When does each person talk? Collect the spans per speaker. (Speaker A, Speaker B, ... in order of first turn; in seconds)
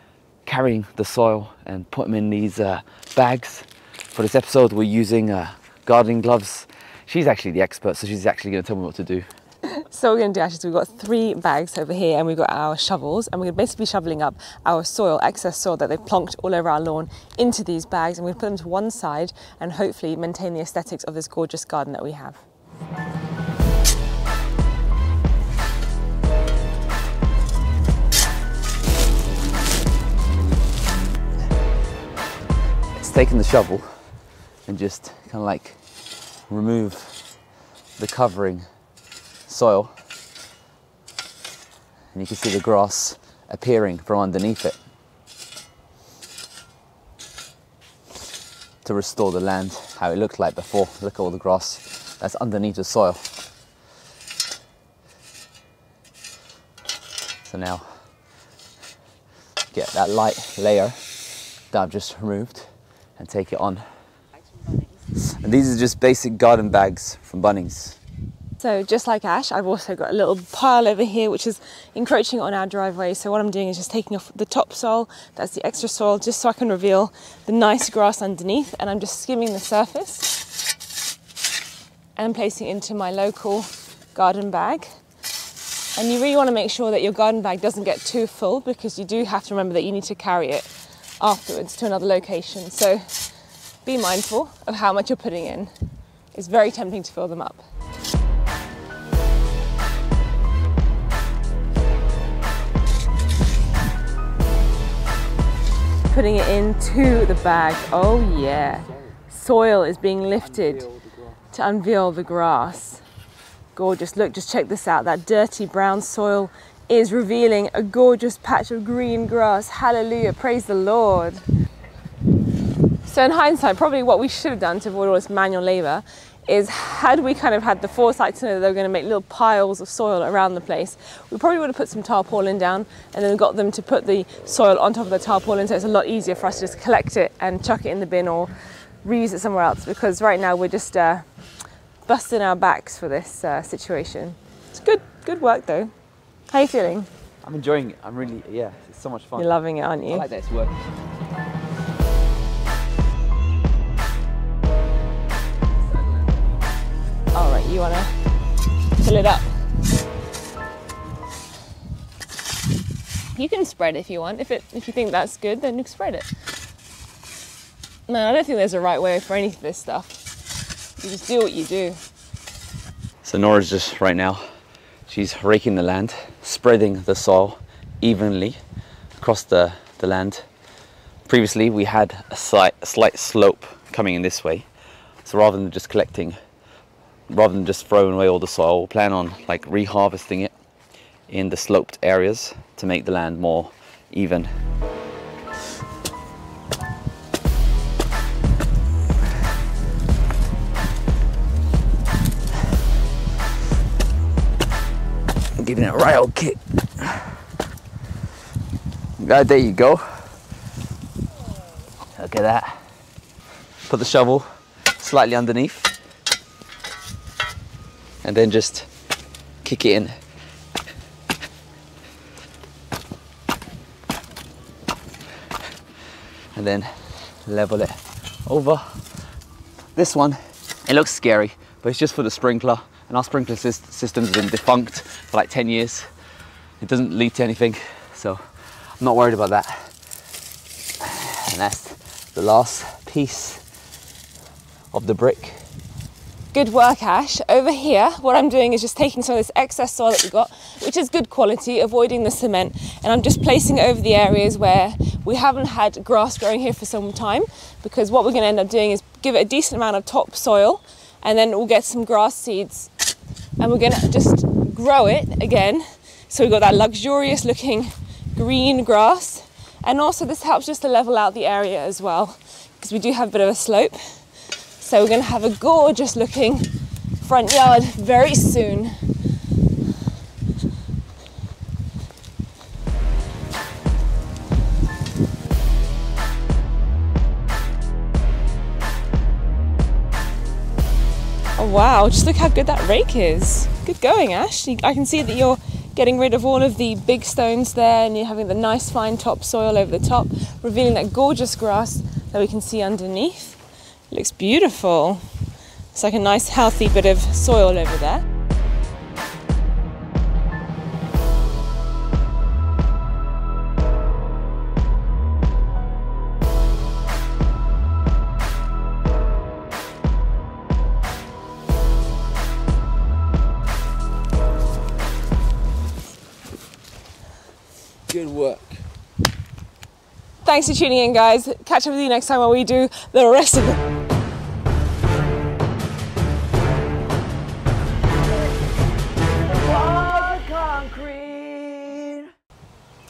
Speaker A: 0.5-9.2, 32.9-34.1, 34.7-35.8, 36.5-37.2, 38.0-38.7, 39.5-39.9, 42.1-44.8, 48.8-53.2, 57.5-58.0, 59.7-61.0, 61.7-63.9, 65.3-68.0, 147.4-149.5, 150.1-150.9, 173.2-174.4, 175.1-178.6, 179.2-180.5, 181.3-184.7, 185.2-186.4, 187.3-190.5, 191.3-194.5, 205.6-207.3, 209.2-210.2, 212.2-212.8, 213.9-214.4, 215.0-215.9, 218.2-218.9, 219.6-220.2, 226.5-226.9, 227.4-229.0, 230.0-236.1, 236.8-238.4, 239.0-239.9, 241.0-243.6, 244.9-245.6, 328.1-328.7, 339.5-342.3
Speaker B: 9.7-22.4, 68.6-80.4, 82.2-84.9, 86.0-93.2, 93.8-95.7, 96.3-97.6, 106.1-113.0, 113.8-121.4, 123.0-141.3, 142.1-145.9, 146.5-147.1, 149.4-150.3, 157.3-158.1, 159.0-159.5, 163.3-166.3, 168.1-170.2, 171.0-172.0, 246.5-262.9, 263.6-274.2, 274.8-279.1, 291.6-303.6, 304.1-305.2, 305.9-308.2, 330.4-333.8